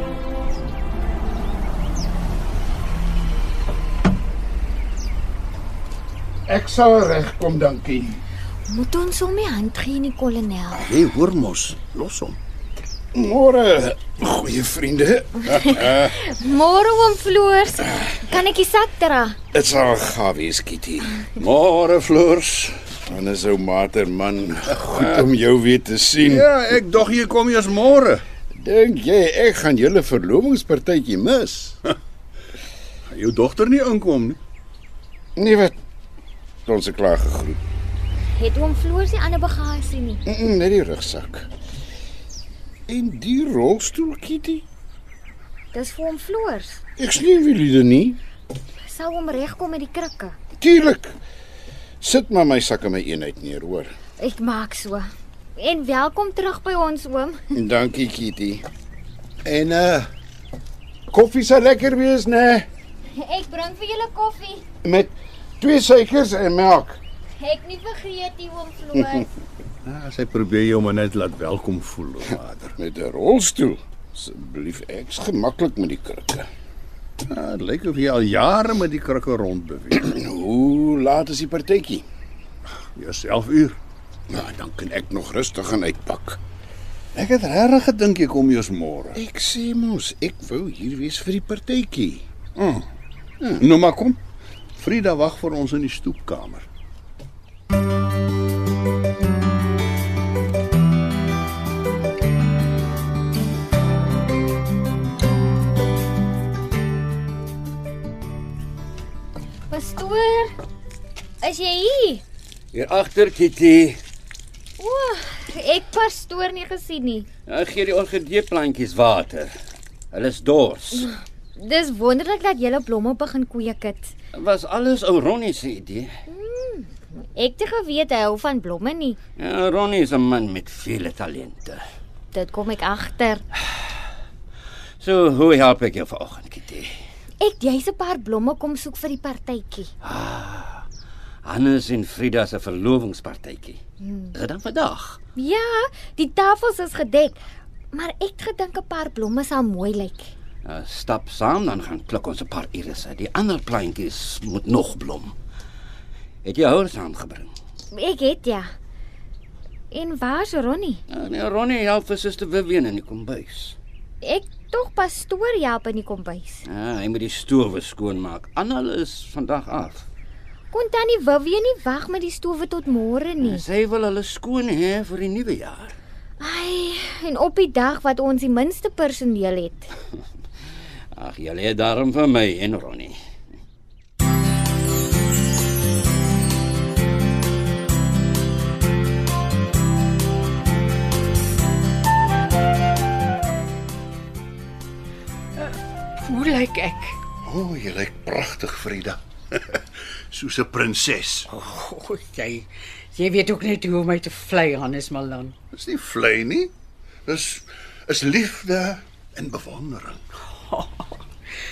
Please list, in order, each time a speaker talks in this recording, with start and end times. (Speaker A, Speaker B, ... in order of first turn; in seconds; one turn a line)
Speaker A: 6.5-8.2
Speaker B: 8.7-10.9
Speaker C: 10.8-12.4
Speaker A: 13.1-16.1
Speaker B: 15.4-19.4
Speaker A: 19.5-21.3
Speaker C: 21.4-22.7
Speaker A: 23.0-26.5
Speaker C: 26.2-28.2
Speaker A: 28.5-31.8
Speaker C: 33.1-34.4
Speaker A: 35.4-35.8
Speaker A: 36.6-37.6
Speaker B: 38.3-40.2
Speaker A: 40.2-41.5
Speaker A: 42.9-44.6
Speaker B: 45.7-46.8
Speaker A: 47.0-48.2
Speaker B: 48.8-50.4
Speaker A: 50.6-51.2
Speaker A: 52.0-53.9
Speaker B: 54.2-57.4
Speaker A: 57.5-58.6
Speaker C: 59.4-60.1
Speaker A: 61.1-62.7
Speaker B: 63.1-64.6
Speaker A: 64.8-67.0
Speaker B: 67.4-69.3
Speaker C: 69.8-72.7
Speaker A: 72.8-76.5
Speaker C: 77.2-80.0
Speaker A: 80.0-82.0
Speaker C: 82.9-83.8
Speaker A: 84.3-86.4
Speaker C: 87.1-89.2
Speaker A: 89.1-92.2
Speaker C: 92.5-92.9
Speaker C: 93.6-94.2
Speaker C: 94.8-96.7
Speaker B: 109.7-110.5
Speaker B: 111.4-112.2
Speaker D: 112.7-114.0
Speaker B: 114.8-117.3
Speaker D: 117.5-119.5
Speaker D: 120.1-121.1
Speaker B: 121.5-124.1
Speaker D: 124.3-126.1
Speaker B: 126.3-129.2
Speaker D: 129.4-131.8
Speaker B: 132.3-133.4
Speaker D: 135.0-136.9
Speaker B: 137.4-139.9
Speaker D: 140.0-140.8
Speaker D: 141.4-143.8
Speaker B: 144.0-144.3
Speaker D: 144.3-145.2
Speaker B: 145.3-147.4
Speaker B: 147.9-150.3
Speaker D: 150.6-155.3
Speaker D: 156.4-157.5
Speaker B: 157.9-158.7
Speaker B: 159.9-161.0
Speaker D: 161.1-163.8
Speaker B: 164.2-166.6
Speaker D: 166.7-170.1
Speaker B: 170.7-173.6
Speaker D: 173.4-175.9
Speaker B: 176.4-179.9
Speaker D: 181.1-183.2
Speaker E: 195.6-197.2
Speaker C: 197.4-201.5
Speaker E: 201.6-205.5
Speaker C: 205.7-206.7
Speaker C: 207.2-210.2
Speaker E: 210.7-211.1